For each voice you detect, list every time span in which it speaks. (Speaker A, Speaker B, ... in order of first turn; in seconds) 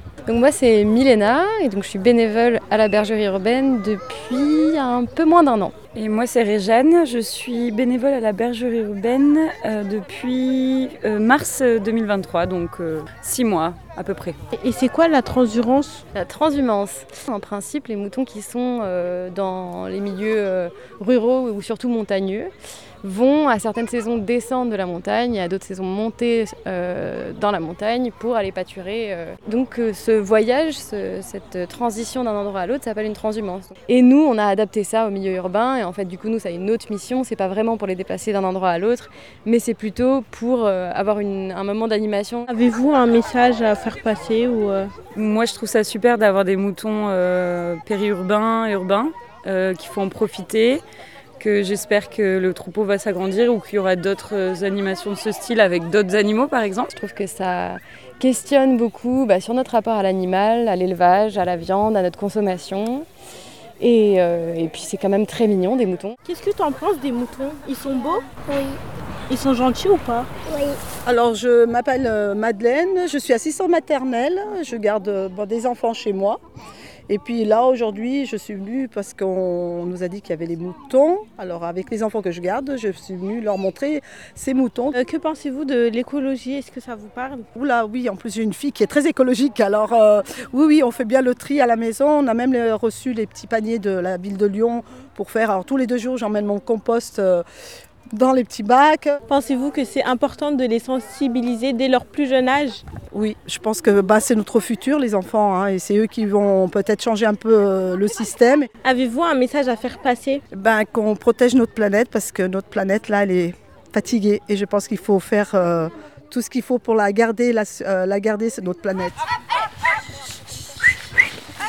Speaker A: 0.2-5.7, 16.1-42.5, 56.9-63.1, 63.8-66.2
Speaker B: 5.9-14.4, 45.1-50.8, 51.4-56.9
Speaker C: 14.5-16.0, 42.5-44.9, 66.2-68.4, 69.3-70.3, 84.9-87.5, 99.3-102.8, 108.8-110.4
Speaker D: 71.0-76.4, 77.1-85.0, 87.5-97.4, 98.1-99.2, 103.1-108.7, 110.5-119.2